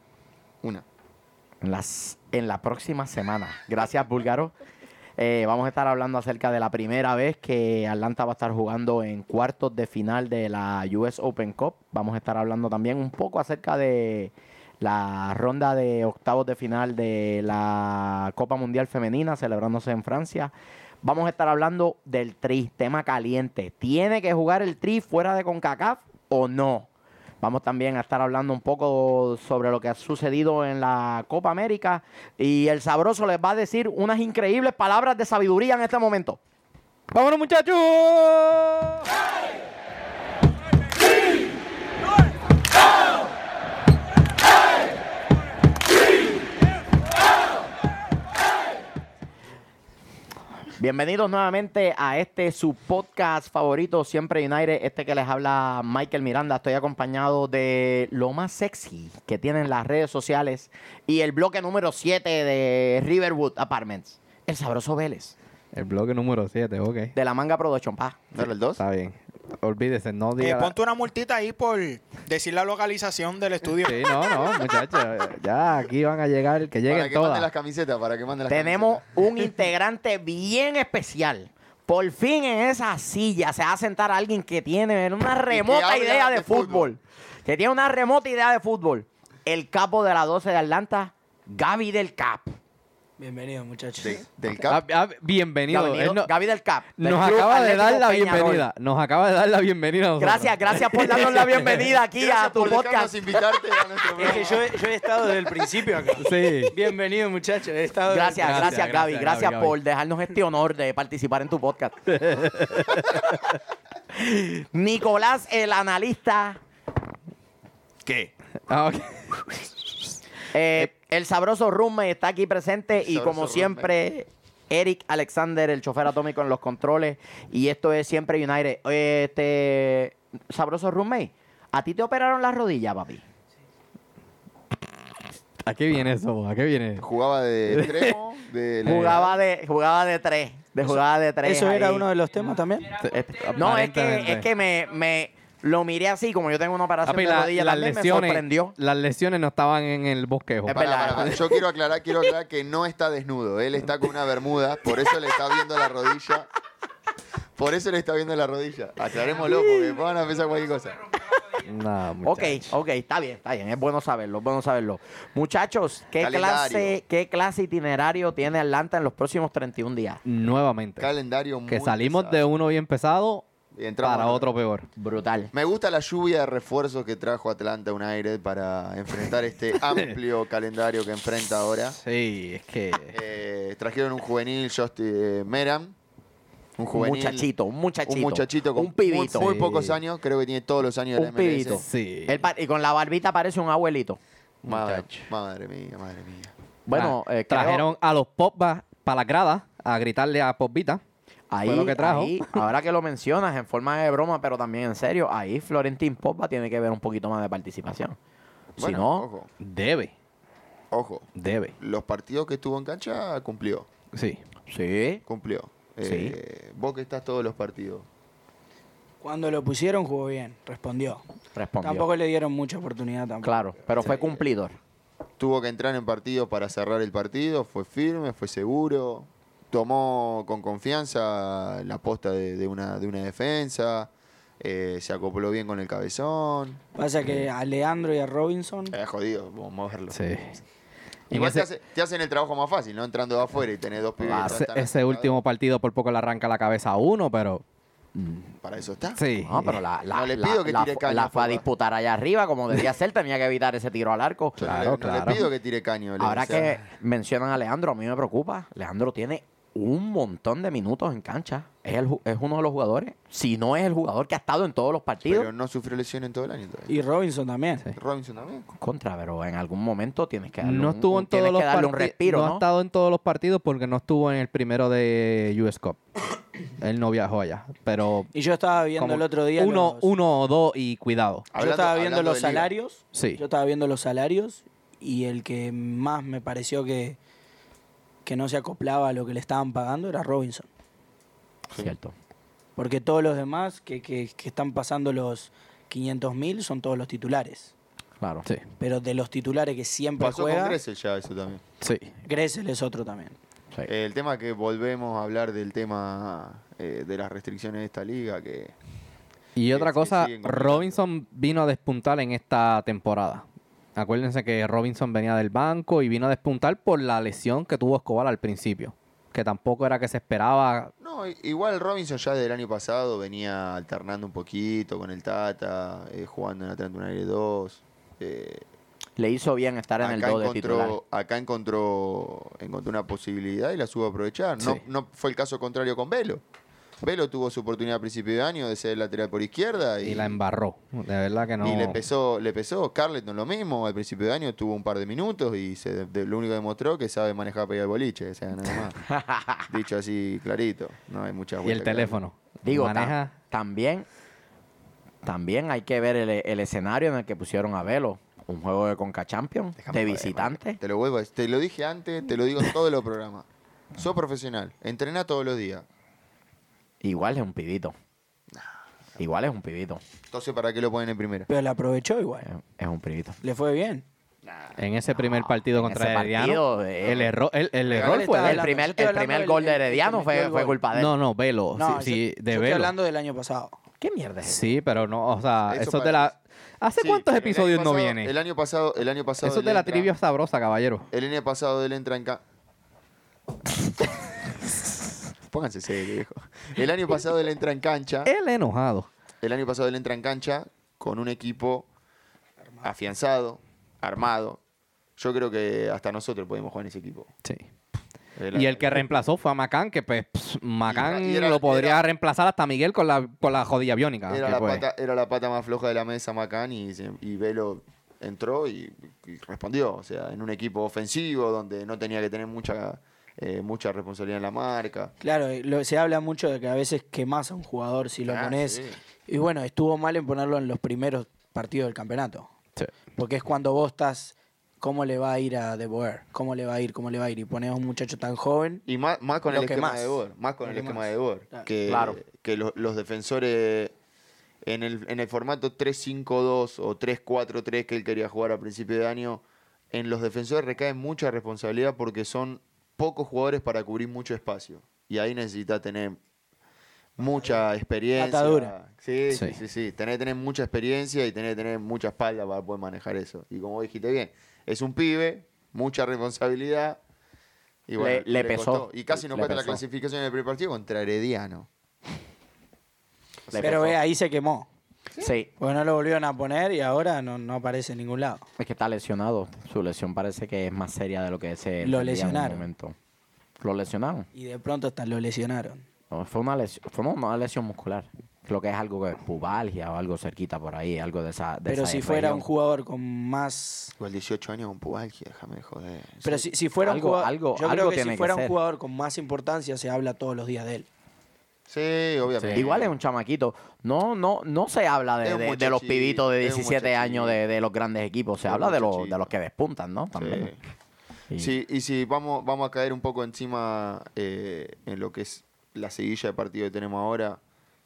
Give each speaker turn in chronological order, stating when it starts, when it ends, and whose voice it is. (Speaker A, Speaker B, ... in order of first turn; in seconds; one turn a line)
Speaker A: 1.6-4.5
Speaker A: 5.2-20.5
Speaker A: 21.0-26.9
Speaker A: 27.4-36.4
Speaker B: 37.1-39.1
Speaker A: 50.8-65.3
Speaker B: 65.7-67.1
Speaker A: 67.2-68.2
Speaker C: 68.3-68.8
Speaker B: 68.8-70.8
Speaker D: 70.4-74.6
Speaker B: 73.8-77.5
Speaker C: 76.9-79.1
Speaker A: 78.5-92.5
Speaker C: 85.5-86.9
Speaker E: 93.2-94.2
Speaker C: 94.0-94.8
Speaker B: 94.7-96.3
Speaker A: 95.7-98.7
Speaker B: 97.0-101.9
Speaker A: 100.2-103.1
Speaker C: 102.2-104.8
Speaker E: 104.1-108.8
Speaker B: 106.2-106.8
Speaker A: 108.1-112.0
Speaker B: 108.4-109.8
Speaker B: 112.1-113.6
Speaker A: 114.1-116.6
Speaker B: 118.7-119.9
Speaker A: 120.5-133.2
Speaker C: 123.0-123.9
Speaker B: 135.6-137.1
Speaker C: 137.0-139.4
Speaker B: 137.7-138.2
Speaker A: 138.8-142.1
Speaker E: 141.4-142.9
Speaker B: 143.0-144.5
Speaker A: 143.1-148.7
Speaker B: 147.1-150.8
Speaker A: 150.7-151.5
Speaker C: 150.8-156.5
Speaker C: 157.6-161.1
Speaker B: 161.5-162.7
Speaker A: 162.2-170.2
Speaker C: 166.2-167.0
Speaker B: 170.3-171.1
Speaker C: 171.0-172.4
Speaker B: 171.7-173.4
Speaker C: 173.8-174.5
Speaker B: 174.0-174.9
Speaker A: 175.0-175.5
Speaker C: 175.5-182.0
Speaker B: 179.9-180.2
Speaker B: 181.9-183.1
Speaker C: 183.1-185.9
Speaker C: 186.8-187.5
Speaker A: 186.9-190.0
Speaker C: 188.1-191.8
Speaker A: 191.2-194.2
Speaker B: 191.7-192.4
Speaker C: 194.6-196.5
Speaker B: 194.7-195.3
Speaker A: 196.9-197.9
Speaker B: 196.9-201.0
Speaker A: 201.5-208.2
Speaker B: 201.6-202.7
Speaker A: 208.8-209.3
Speaker C: 208.8-209.5
Speaker B: 209.6-210.1
Speaker C: 210.9-213.9
Speaker B: 211.3-211.8
Speaker B: 214.1-214.4
Speaker A: 214.7-215.2
Speaker C: 215.3-218.1
Speaker A: 216.1-216.3
Speaker E: 219.2-221.2
Speaker A: 221.6-222.1
Speaker E: 221.8-224.4
Speaker A: 223.4-224.8
Speaker C: 225.4-236.8
Speaker E: 236.9-239.0
Speaker C: 238.9-240.2
Speaker B: 240.1-240.6
Speaker C: 241.3-245.4
Speaker B: 241.3-241.7
Speaker A: 244.2-244.6
Speaker B: 244.3-247.6
Speaker A: 248.2-248.5
Speaker C: 248.6-249.2
Speaker B: 249.2-249.8
Speaker A: 249.5-254.6
Speaker C: 250.1-251.6
Speaker C: 254.6-256.8
Speaker B: 254.6-255.5
Speaker A: 256.2-265.5
Speaker C: 265.3-266.9
Speaker E: 266.9-267.9
Speaker C: 267.9-268.7
Speaker A: 268.8-272.6
Speaker B: 270.6-276.0
Speaker B: 276.8-278.3
Speaker E: 278.3-280.1
Speaker B: 279.0-281.5
Speaker C: 281.5-282.7
Speaker E: 281.6-287.2
Speaker B: 283.1-283.4
Speaker E: 288.2-290.7
Speaker A: 291.7-292.1
Speaker E: 292.8-297.7
Speaker A: 298.2-298.5
Speaker E: 298.8-300.8
Speaker C: 300.2-301.6
Speaker B: 301.8-302.1
Speaker E: 302.2-303.4
Speaker C: 303.9-308.7
Speaker B: 309.6-313.4
Speaker C: 309.6-311.0
Speaker B: 314.0-320.9
Speaker C: 321.0-328.6
Speaker A: 329.2-331.0
Speaker C: 330.0-336.4
Speaker B: 334.6-334.8
Speaker C: 337.0-340.4
Speaker B: 340.0-342.0
Speaker C: 341.6-349.1
Speaker A: 349.1-349.6
Speaker C: 349.7-352.2
Speaker B: 351.6-353.3
Speaker A: 352.6-354.1
Speaker A: 355.2-360.8
Speaker D: 359.9-360.2
Speaker C: 359.9-363.5
Speaker C: 364.0-365.9
Speaker A: 367.0-367.9
Speaker A: 369.2-370.0
Speaker C: 370.3-371.5
Speaker E: 371.5-372.5
Speaker A: 372.4-373.4
Speaker E: 373.4-374.1
Speaker C: 374.4-374.8
Speaker B: 374.8-378.6
Speaker A: 375.6-377.3
Speaker C: 377.9-378.4
Speaker E: 377.9-380.8
Speaker A: 378.4-381.1
Speaker B: 380.9-382.9
Speaker E: 381.8-383.8
Speaker A: 384.0-384.6
Speaker B: 384.4-388.3
Speaker C: 385.7-386.4
Speaker C: 387.0-390.1
Speaker B: 389.4-391.1
Speaker C: 391.1-392.4
Speaker C: 395.5-398.3
Speaker B: 398.3-399.1
Speaker C: 399.4-401.9
Speaker C: 402.8-404.6
Speaker C: 405.2-407.3
Speaker C: 408.4-409.2
Speaker B: 408.5-414.9
Speaker C: 410.9-412.0
Speaker C: 414.3-425.1
Speaker E: 425.2-432.5
Speaker C: 428.2-429.0
Speaker E: 433.1-438.8
Speaker C: 438.9-443.9
Speaker E: 439.5-441.7
Speaker A: 441.9-442.2
Speaker C: 444.6-456.2
Speaker C: 457.2-467.0
Speaker E: 457.2-457.6
Speaker E: 458.2-458.7
Speaker B: 459.3-459.6
Speaker C: 467.9-471.7
Speaker A: 468.0-469.8
Speaker A: 473.5-474.0
Speaker C: 473.6-473.8
Speaker E: 473.6-474.7
Speaker A: 475.2-475.5
Speaker E: 475.6-478.4
Speaker A: 478.6-482.9
Speaker E: 481.8-482.7
Speaker A: 483.6-484.3
Speaker E: 484.3-485.9
Speaker A: 486.1-492.5
Speaker E: 491.7-493.9
Speaker C: 494.0-496.5
Speaker E: 496.2-500.9
Speaker A: 496.8-498.6
Speaker C: 501.7-502.9
Speaker B: 502.4-502.7
Speaker A: 502.6-510.5
Speaker C: 505.2-507.4
Speaker C: 508.4-509.3
Speaker C: 510.2-510.6
Speaker C: 511.4-517.4